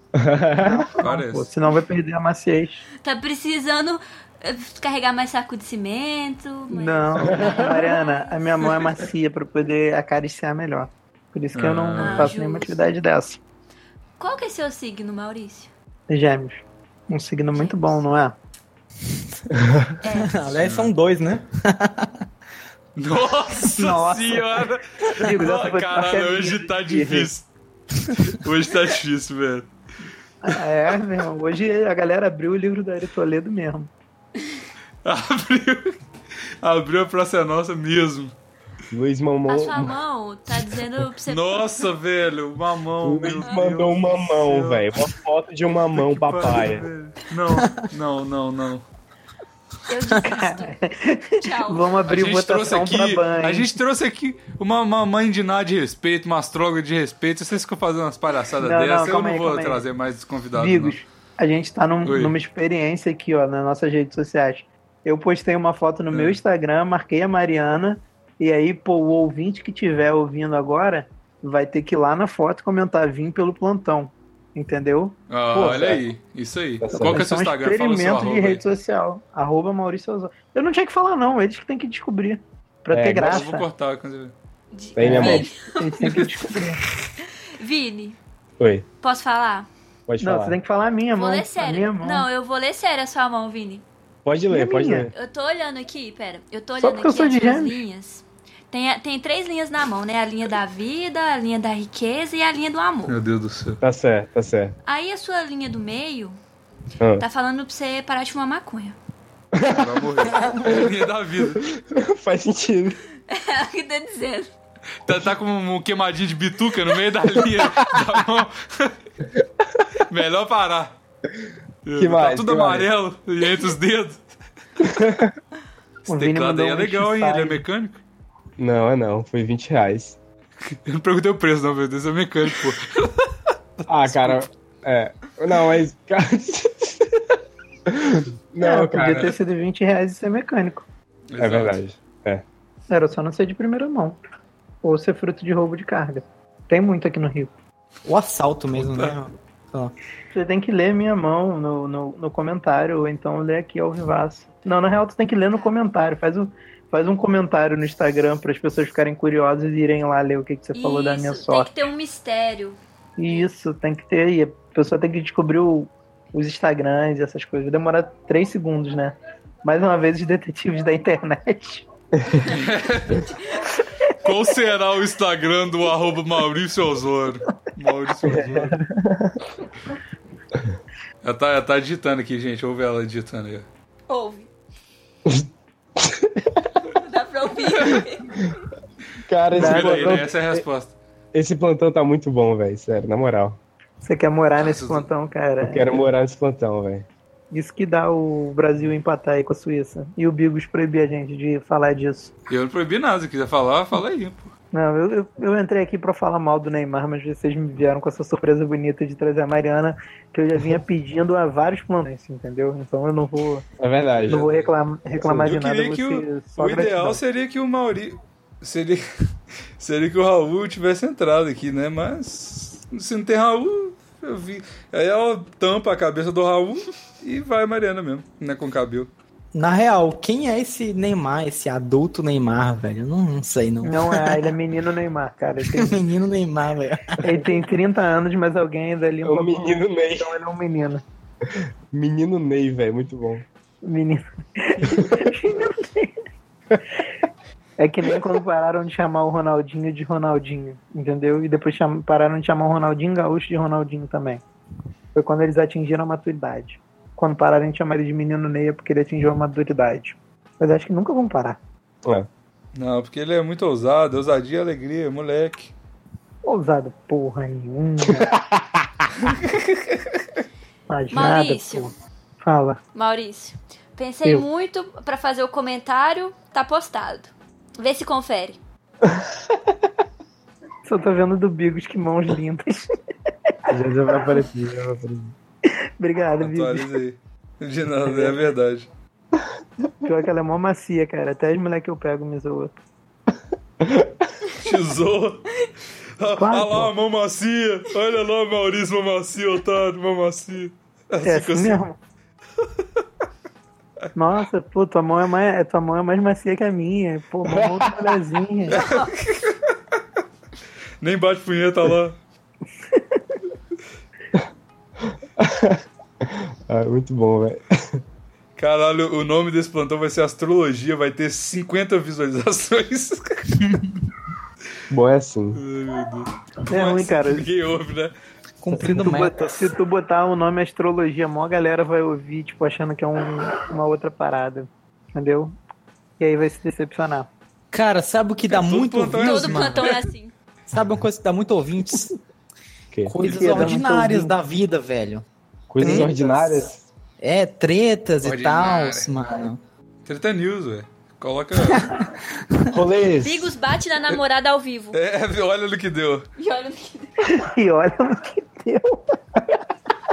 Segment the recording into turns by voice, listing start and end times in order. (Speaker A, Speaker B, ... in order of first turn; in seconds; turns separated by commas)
Speaker A: 0.2-0.8, Speaker B: 0.6-2.8, Speaker C: 1.0-1.5, Speaker D: 3.0-8.8, Speaker B: 6.7-13.4, Speaker A: 7.3-7.6, Speaker C: 11.5-12.3, Speaker D: 12.0-12.9, Speaker D: 14.2-15.7, Speaker B: 16.1-18.3, Speaker A: 19.6-19.9, Speaker D: 20.0-20.4, Speaker E: 20.1-22.2, Speaker C: 20.6-20.9, Speaker C: 22.9-27.5, Speaker B: 23.6-27.3, Speaker C: 28.2-29.7, Speaker B: 30.4-33.9, Speaker C: 35.0-36.0, Speaker C: 36.6-38.3, Speaker A: 38.9-40.0, Speaker D: 39.5-41.7, Speaker C: 41.2-44.9, Speaker A: 43.0-46.9, Speaker C: 45.9-48.8, Speaker D: 49.9-50.8, Speaker B: 50.2-53.7, Speaker D: 51.4-51.9, Speaker C: 52.1-61.0, Speaker B: 58.6-59.8, Speaker B: 60.5-75.2, Speaker C: 62.0-62.3, Speaker C: 66.1-66.4, Speaker C: 75.3-78.6, Speaker A: 75.5-76.0, Speaker A: 76.8-77.2, Speaker B: 76.9-83.7, Speaker A: 82.9-83.4, Speaker C: 83.2-84.3, Speaker D: 84.7-86.3, Speaker A: 85.0-85.5, Speaker B: 85.0-86.8, Speaker D: 87.2-88.2, Speaker A: 88.6-88.8, Speaker D: 89.0-89.7, Speaker A: 90.1-90.6, Speaker B: 90.2-92.3, Speaker D: 91.2-93.8, Speaker A: 94.2-95.1, Speaker B: 94.5-95.1, Speaker D: 95.1-103.2, Speaker B: 96.8-97.8, Speaker C: 103.1-103.8, Speaker A: 103.8-104.8, Speaker D: 104.8-106.4, Speaker A: 107.0-107.2, Speaker D: 107.2-109.0, Speaker A: 109.5-109.9, Speaker C: 109.6-111.6, Speaker A: 110.6-110.9, Speaker A: 111.4-113.0, Speaker D: 113.3-114.5, Speaker C: 115.0-118.9, Speaker A: 117.6-117.9, Speaker C: 120.1-121.0, Speaker C: 121.8-124.2, Speaker A: 122.0-122.9, Speaker A: 124.8-125.3, Speaker B: 126.1-127.6, Speaker C: 126.1-128.0, Speaker A: 128.6-130.2, Speaker C: 130.6-133.2, Speaker C: 133.8-134.4, Speaker A: 133.9-137.2, Speaker A: 137.9-139.3, Speaker B: 138.6-140.8, Speaker C: 141.3-141.8, Speaker A: 141.4-142.4, Speaker B: 142.9-144.2, Speaker B: 144.8-147.5, Speaker E: 148.0-149.9, Speaker B: 150.3-161.7, Speaker D: 160.7-162.8, Speaker B: 163.2-171.8, Speaker A: 172.2-172.5, Speaker C: 172.5-173.3, Speaker D: 173.3-173.5, Speaker C: 174.2-178.7, Speaker B: 178.2-178.6, Speaker A: 178.3-179.3, Speaker C: 181.2-183.7, Speaker D: 184.1-184.5, Speaker A: 186.0-186.8, Speaker D: 186.9-188.4, Speaker A: 189.3-190.6, Speaker C: 189.5-190.9, Speaker B: 189.5-190.3, Speaker A: 191.3-193.6, Speaker B: 194.0-195.8, Speaker C: 194.6-195.1, Speaker A: 195.6-197.1, Speaker B: 197.5-202.3, Speaker C: 202.5-204.5, Speaker B: 204.7-213.6, Speaker A: 213.8-214.5, Speaker B: 214.3-217.2, Speaker C: 215.4-219.0, Speaker C: 219.8-229.1, Speaker E: 229.5-234.5, Speaker B: 233.8-236.0, Speaker E: 235.6-237.4, Speaker B: 237.2-241.0, Speaker A: 239.2-240.3, Speaker A: 241.9-243.4, Speaker B: 243.8-246.2, Speaker A: 244.8-245.2, Speaker B: 247.8-254.4, Speaker B: 255.1-261.6, Speaker C: 262.7-265.7, Speaker B: 266.4-268.3, Speaker A: 268.1-268.6, Speaker B: 270.9-272.8, Speaker D: 271.1-271.9, Speaker D: 272.9-278.6, Speaker B: 280.9-282.9, Speaker A: 283.7-285.3, Speaker B: 286.0-286.9, Speaker C: 286.4-288.9, Speaker B: 288.0-288.4, Speaker B: 290.0-292.7, Speaker A: 293.8-294.1, Speaker C: 294.6-295.4, Speaker C: 296.2-301.8, Speaker B: 296.3-296.9, Speaker B: 301.2-302.0, Speaker B: 304.1-308.8, Speaker A: 307.5-307.8, Speaker C: 308.7-309.6, Speaker D: 308.7-309.1, Speaker C: 311.0-312.2, Speaker A: 315.4-318.0, Speaker C: 318.6-323.6, Speaker A: 324.9-325.6, Speaker C: 325.5-328.1, Speaker B: 326.7-327.4, Speaker E: 328.6-329.5, Speaker B: 328.7-335.5, Speaker B: 336.2-337.3, Speaker E: 337.7-339.9, Speaker C: 338.5-340.1, Speaker D: 339.2-340.3, Speaker E: 340.7-342.1, Speaker E: 343.1-345.2, Speaker B: 343.2-344.3, Speaker A: 345.7-346.8, Speaker B: 345.8-346.1, Speaker E: 345.8-346.1, Speaker E: 347.2-349.6, Speaker C: 348.2-349.2, Speaker C: 350.0-351.9, Speaker A: 352.7-353.6, Speaker D: 353.2-355.0, Speaker C: 354.9-356.3, Speaker D: 356.4-357.2, Speaker B: 357.2-359.0